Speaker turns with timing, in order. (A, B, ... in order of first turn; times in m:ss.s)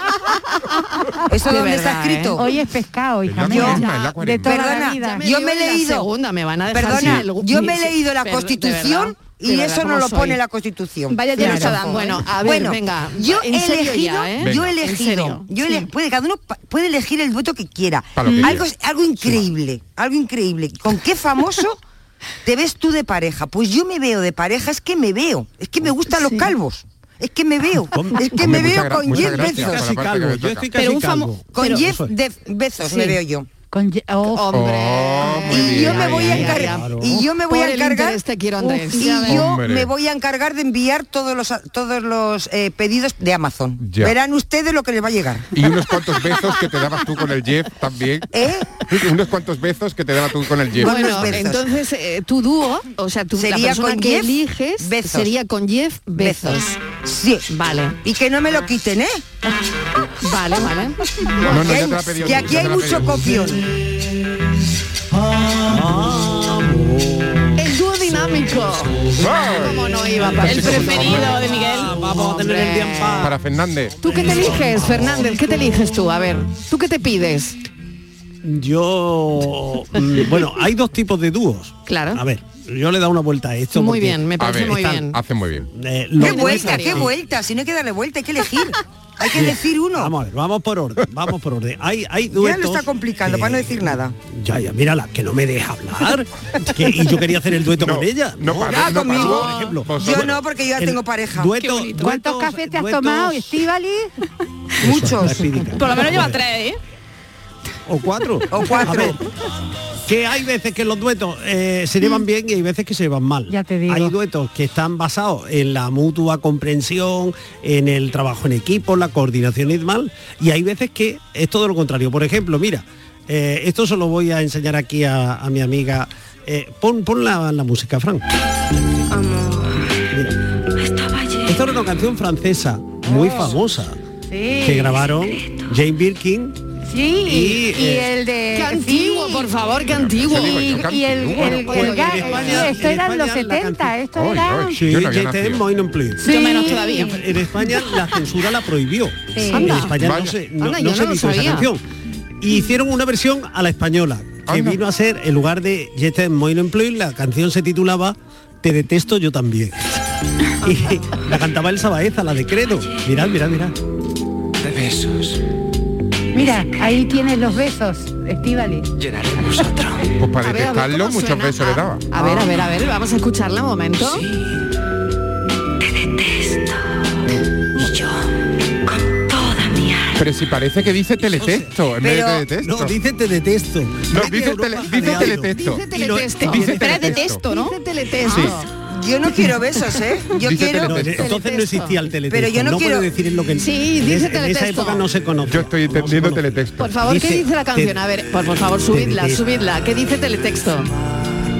0:00.3-0:02.5 A
0:01.3-0:02.4 B
0:02.4-0:05.3 C
0:03.2-0:04.6 D
0:03.5-0:03.9 B
0:03.5-0:10.4 A
0:04.4-0:06.1 B
0:06.7-0:21.8 B
0:06.9-0:07.2 D
0:11.1-0:12.4 E
0:11.4-0:15.9 A
0:11.4-0:11.7 C
0:14.4-0:14.7 D
0:18.2-0:18.7 D
0:18.2-0:18.6 E
0:22.4-0:29.9 B
0:27.9-0:32.1 F
0:28.3-0:30.7 D
0:30.7-0:31.9 E
0:31.5-0:33.5 B
0:33.7-0:34.6 C
0:34.3-0:39.4 A
0:34.5-0:36.6 D
0:35.5-0:38.2 B
0:36.5-0:37.2 F
0:38.9-0:45.5 B
0:39.2-0:39.9 D
0:43.8-0:44.1 D
0:45.5-0:51.5 D
0:48.3-0:48.7 B
0:50.7-0:51.7 B
0:50.8-0:56.8 A
0:53.4-0:55.3 B
0:56.2-0:57.5 B
0:57.5-0:58.0 A
0:58.0-0:59.2 B
1:00.2-1:01.8 A
1:01.4-1:03.2 D
1:01.4-1:03.6 B
1:05.2-1:15.7 F
1:07.6-1:13.3 A
1:09.2-1:11.4 D
1:10.4-1:12.0 E
1:13.2-1:13.9 D
1:14.0-1:17.6 A
1:18.4-1:24.3 F
1:21.8-1:22.2 A
1:23.7-1:25.2 A
1:24.4-1:25.7 D
1:25.7-1:27.1 F
1:26.2-1:27.1 A
1:26.2-1:30.1 B
1:29.3-1:40.1 F
1:32.3-1:34.1 B
1:37.8-1:40.4 D
1:38.6-1:41.5 B
1:40.8-1:43.6 F
1:41.6-1:42.1 E
1:41.9-1:44.1 C
1:44.8-1:45.4 B
1:44.8-1:46.4 F
1:45.6-1:46.8 E
1:47.9-1:49.2 F
1:48.5-1:49.2 B
1:50.0-2:08.2 F
1:53.5-1:54.1 C
2:11.4-2:14.0 F
2:13.0-2:13.6 C
2:14.3-2:15.0 C
2:14.6-2:16.6 F
2:16.8-2:19.6 C
2:17.2-2:18.1 F
2:18.5-2:20.9 A
2:19.8-2:22.1 D
2:20.3-2:24.8 C
2:21.4-2:22.8 A
2:21.5-2:24.0 F
2:24.1-2:25.6 D
2:24.7-2:31.8 F
2:26.2-2:27.9 E
2:26.2-2:27.1 C
2:29.3-2:29.8 C
2:29.5-2:29.9 A
2:29.9-2:30.4 D
2:30.6-2:31.7 A
2:32.4-2:40.0 F
2:34.4-2:34.8 D
2:40.6-2:43.7 F
2:46.3-2:48.9 C
2:50.2-2:52.1 D
2:50.4-2:54.2 A
2:57.8-2:58.1 E
2:59.4-2:59.9 E
3:00.2-3:03.0 D
3:01.3-3:01.7 F
3:02.0-3:02.5 B
3:02.6-3:07.3 F
3:04.1-3:05.9 D
3:05.1-3:08.7 A
3:06.4-3:07.4 D
3:06.6-3:07.8 E
3:08.2-3:08.6 D
3:08.9-3:11.3 B
3:10.3-3:11.2 D
3:10.8-3:18.1 F
3:11.2-3:12.0 A
3:12.3-3:13.1 B
3:13.6-3:15.0 A
3:15.4-3:17.0 D
3:16.8-3:20.9 A
3:18.7-3:19.4 F